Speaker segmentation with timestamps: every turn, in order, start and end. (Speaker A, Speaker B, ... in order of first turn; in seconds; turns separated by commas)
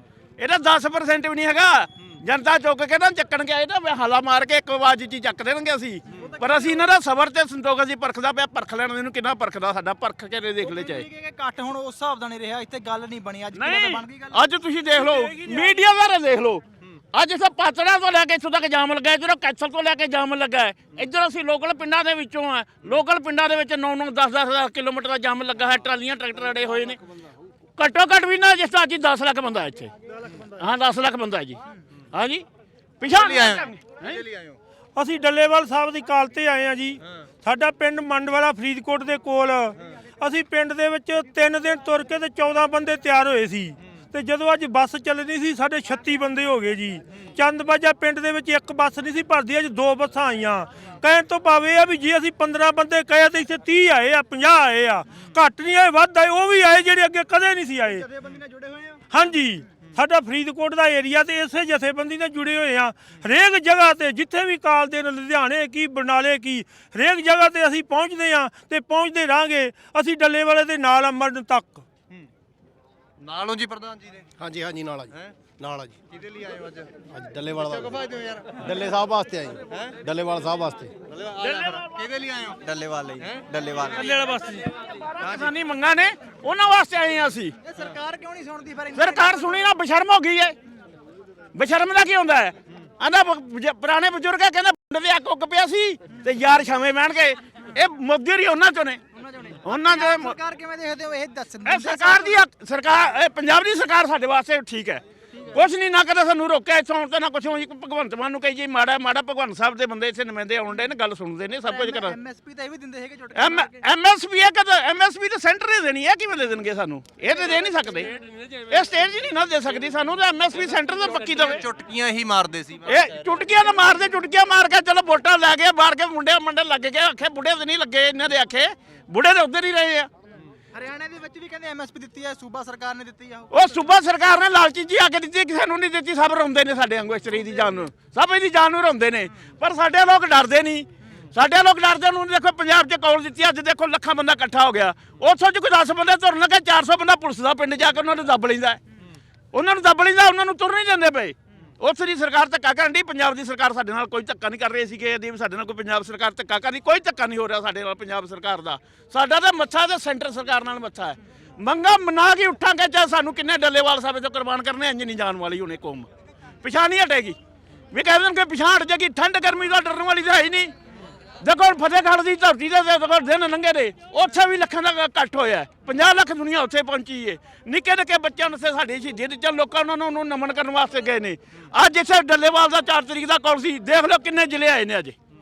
Speaker A: 0.4-11.1, Speaker B: 6.1-6.9, Speaker B: 10.6-15.7, Speaker A: 13.5-27.0, Speaker A: 27.8-29.9, Speaker A: 30.5-31.6, Speaker A: 32.1-32.4, Speaker A: 33.0-34.2, Speaker C: 33.1-34.6, Speaker D: 35.0-58.0, Speaker B: 57.9-59.0, Speaker D: 59.1-71.8, Speaker C: 73.2-74.3, Speaker E: 74.4-75.0, Speaker C: 75.1-78.6, Speaker E: 77.2-77.8, Speaker E: 78.6-80.9, Speaker C: 81.0-84.2, Speaker A: 81.4-81.9, Speaker D: 84.0-84.6, Speaker A: 84.9-87.5, Speaker B: 87.6-89.5, Speaker A: 88.9-90.5, Speaker A: 91.5-99.0, Speaker B: 99.1-102.4, Speaker A: 99.6-100.4, Speaker A: 101.6-112.2, Speaker B: 111.7-113.8, Speaker A: 113.3-121.6, Speaker C: 121.2-123.0, Speaker A: 122.9-130.1, Speaker B: 130.7-133.7, Speaker A: 133.5-148.8, Speaker A: 149.5-166.1, Speaker A: 166.6-167.4, Speaker A: 167.9-170.7, Speaker A: 171.4-185.1